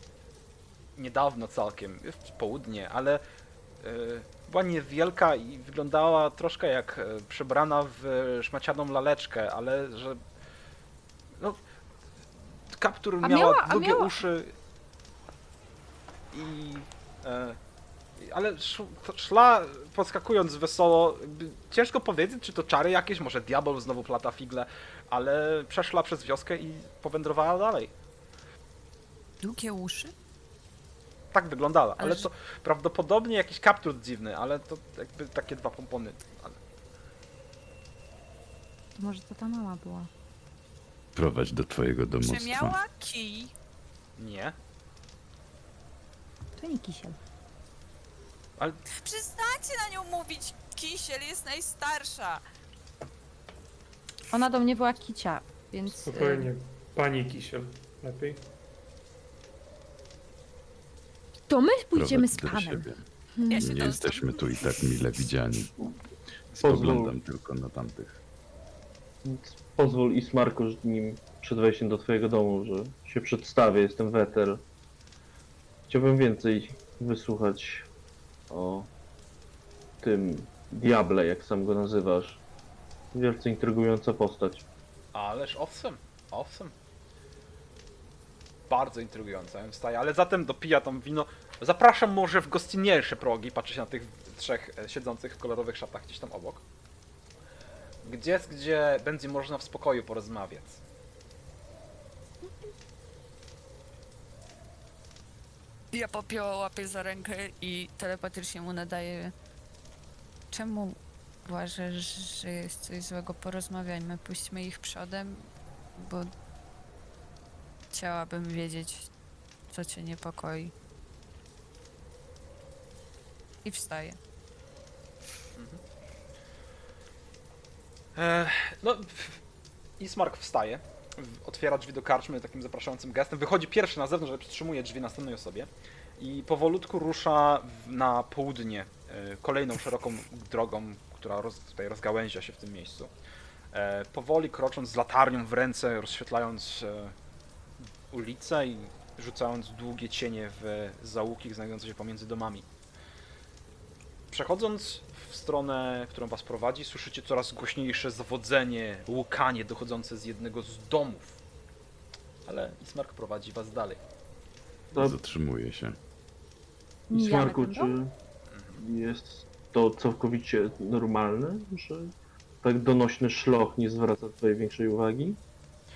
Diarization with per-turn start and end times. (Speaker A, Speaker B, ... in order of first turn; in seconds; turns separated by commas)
Speaker A: 0.9-3.2, Speaker A: 3.8-10.2, Speaker A: 12.7-14.5, Speaker B: 13.2-14.1, Speaker A: 16.3-17.6, Speaker A: 18.2-27.9, Speaker C: 29.4-30.1, Speaker A: 31.3-36.6, Speaker C: 32.0-32.2, Speaker B: 39.0-40.1, Speaker D: 41.1-42.8, Speaker C: 42.2-43.5, Speaker A: 44.2-44.5, Speaker B: 46.6-47.2, Speaker C: 49.0-52.4, Speaker B: 54.3-56.5, Speaker E: 55.9-58.5, Speaker B: 61.5-63.6, Speaker D: 61.9-65.7, Speaker C: 63.5-64.5, Speaker D: 66.6-68.2, Speaker F: 66.6-67.1, Speaker F: 69.2-74.6, Speaker F: 75.9-77.9, Speaker F: 78.5-78.9, Speaker F: 80.0-82.4, Speaker F: 83.1-84.6, Speaker A: 85.1-86.7, Speaker A: 88.7-96.6, Speaker A: 98.0-100.8, Speaker C: 105.9-109.3, Speaker C: 110.5-116.3, Speaker C: 117.9-119.1, Speaker C: 119.7-120.7, Speaker C: 123.6-124.2, Speaker A: 125.5-125.8, Speaker A: 128.1-129.4, Speaker A: 130.0-143.1, Speaker A: 143.7-147.1, Speaker A: 148.1-152.7, Speaker A: 154.3-161.4, Speaker A: 162.4-164.0, Speaker D: 164.9-166.0, Speaker B: 167.1-167.9, Speaker F: 167.1-168.1, Speaker A: 168.5-168.8, Speaker F: 168.8-175.4